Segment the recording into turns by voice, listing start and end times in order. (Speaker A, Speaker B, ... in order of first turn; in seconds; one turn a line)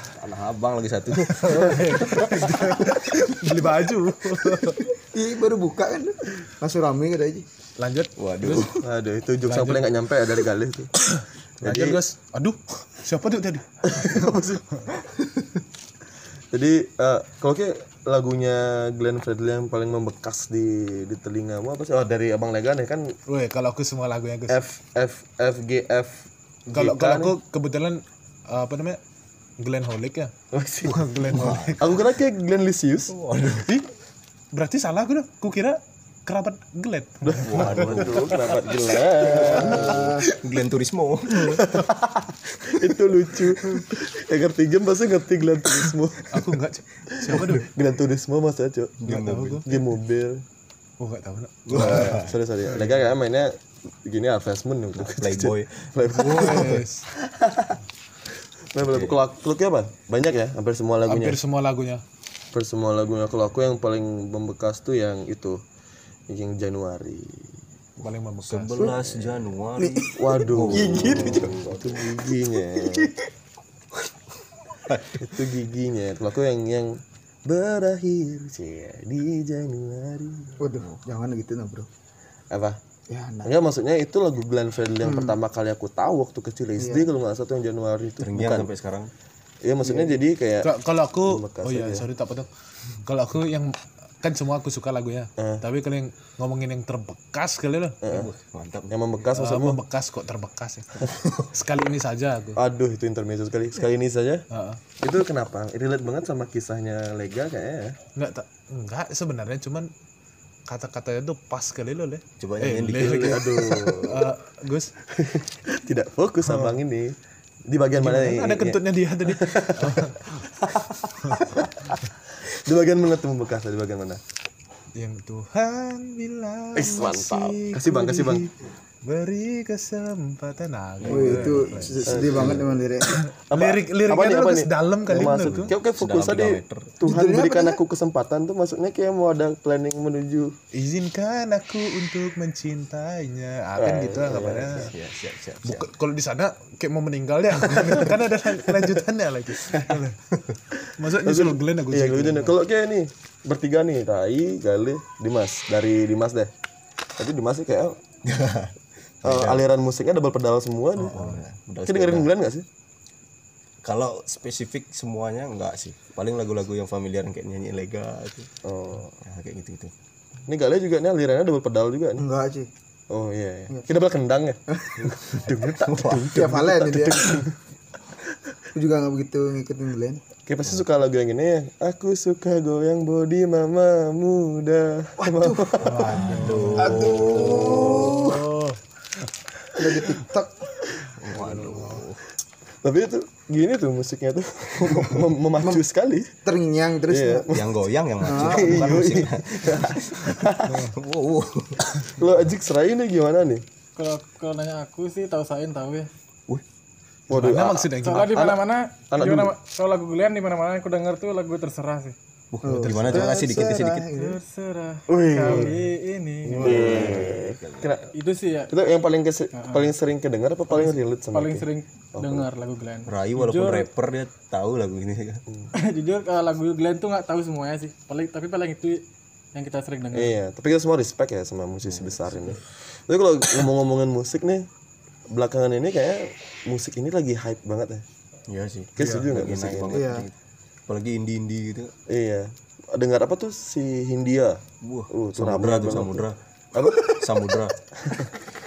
Speaker A: 0.1-3.4
Speaker B: 1.3-4.8
Speaker C: 5.1-7.5
Speaker B: 7.8-8.8
Speaker A: 8.2-8.8
Speaker D: 8.8-10.9
Speaker B: 9.4-9.9
Speaker B: 11.0-13.7
Speaker D: 11.6-12.0
Speaker D: 13.8-14.8
Speaker D: 16.5-23.1
Speaker B: 23.3-24.6
Speaker D: 24.5-27.4
Speaker B: 26.7-29.0
Speaker B: 29.6-30.3
Speaker D: 30.5-31.1
Speaker B: 30.9-31.9
Speaker A: 31.3-31.9
Speaker D: 31.8-33.1
Speaker A: 33.1-33.7
Speaker B: 33.6-33.9
Speaker B: 34.5-38.9
Speaker D: 37.2-40.2
Speaker A: 37.4-38.3
Speaker A: 39.2-41.8
Speaker C: 39.3-40.3
Speaker B: 39.4-40.0
Speaker D: 41.5-46.5
Speaker A: 42.6-42.9
Speaker B: 46.3-47.7
Speaker D: 47.2-49.0
Speaker A: 49.0-49.7
Speaker B: 49.1-49.8
Speaker D: 49.6-50.4
Speaker B: 51.0-52.2
Speaker A: 51.7-52.4
Speaker D: 51.7-57.8
Speaker A: 55.0-56.9
Speaker B: 56.1-57.1
Speaker D: 58.7-61.4
Speaker A: 58.8-59.2
Speaker B: 61.1-62.0
Speaker D: 62.5-65.6
Speaker D: 66.3-67.6
Speaker B: 68.0-68.9
Speaker A: 68.0-72.1
Speaker D: 68.8-69.4
Speaker C: 69.8-71.5
Speaker D: 70.0-73.1
Speaker A: 74.9-75.3
Speaker D: 75.2-80.6
Speaker C: 80.6-81.9
Speaker D: 82.5-82.8
Speaker C: 83.1-83.5
Speaker D: 83.4-88.7
Speaker C: 85.0-85.4
Speaker C: 86.8-87.1
Speaker A: 88.2-89.1
Speaker D: 89.6-92.1
Speaker C: 89.8-90.1
Speaker B: 90.6-92.5
Speaker B: 93.0-98.0
Speaker D: 95.4-95.6
Speaker D: 98.0-98.3
Speaker A: 98.1-98.9
Speaker D: 98.9-99.8
Speaker B: 99.3-102.6
Speaker A: 101.2-101.5
Speaker D: 102.6-104.5
Speaker B: 104.5-104.8
Speaker D: 105.0-108.0
Speaker B: 108.2-109.9
Speaker B: 110.7-114.9
Speaker A: 112.4-113.6
Speaker D: 113.0-114.3
Speaker D: 115.1-117.2
Speaker B: 116.5-116.8
Speaker D: 117.7-124.2
Speaker B: 118.0-120.3
Speaker B: 121.2-121.6
Speaker B: 125.0-128.5
Speaker D: 126.8-128.5
Speaker B: 129.0-132.2
Speaker A: 131.0-132.7
Speaker C: 131.1-133.2
Speaker D: 132.1-132.7
Speaker B: 133.0-135.7
Speaker D: 133.5-140.6
Speaker A: 135.2-136.9
Speaker C: 137.0-137.8
Speaker B: 140.7-144.9
Speaker D: 143.8-144.9
Speaker A: 144.3-145.9
Speaker B: 145.7-150.2
Speaker B: 151.0-152.6
Speaker D: 151.1-156.5
Speaker D: 157.2-158.0
Speaker A: 158.2-159.7
Speaker D: 159.2-161.2
Speaker B: 161.0-161.4
Speaker A: 161.1-162.3
Speaker D: 161.8-162.7
Speaker A: 163.8-168.5
Speaker D: 168.6-169.2
Speaker A: 169.2-169.9
Speaker D: 170.5-172.2
Speaker C: 172.2-172.7
Speaker D: 173.1-177.5
Speaker A: 175.0-176.7
Speaker C: 176.3-177.4
Speaker C: 178.8-180.2
Speaker D: 180.5-186.3
Speaker C: 185.2-186.0
Speaker B: 185.8-188.8
Speaker A: 186.1-188.4
Speaker C: 186.8-188.3
Speaker D: 187.4-188.3
Speaker C: 189.8-190.7
Speaker D: 190.9-191.2
Speaker A: 191.2-192.2
Speaker B: 191.3-192.0
Speaker D: 192.8-196.3
Speaker C: 196.4-197.5
Speaker D: 197.1-197.7
Speaker A: 197.5-201.9
Speaker C: 198.2-198.8
Speaker D: 198.2-200.9
Speaker D: 202.0-203.6
Speaker E: 204.0-206.1
Speaker D: 207.3-209.5
Speaker B: 207.3-208.6
Speaker E: 208.0-212.2
Speaker A: 212.5-214.1
Speaker C: 212.6-214.4
Speaker B: 212.8-213.3
Speaker E: 214.1-217.3
Speaker D: 215.1-215.8
Speaker A: 216.5-217.9
Speaker D: 216.6-218.1
Speaker E: 218.1-218.7
Speaker D: 218.7-222.5
Speaker E: 219.5-219.9
Speaker E: 220.7-223.9
Speaker A: 223.1-225.4
Speaker E: 225.7-229.0
Speaker E: 229.6-230.3
Speaker D: 230.1-234.7
Speaker A: 231.9-232.4
Speaker D: 235.3-238.1
Speaker A: 238.5-240.3
Speaker D: 239.0-240.1
Speaker B: 239.0-239.2
Speaker C: 239.9-240.3
Speaker A: 240.9-241.9
Speaker D: 242.1-247.2
Speaker A: 244.8-246.4
Speaker A: 247.0-247.8
Speaker D: 248.0-248.3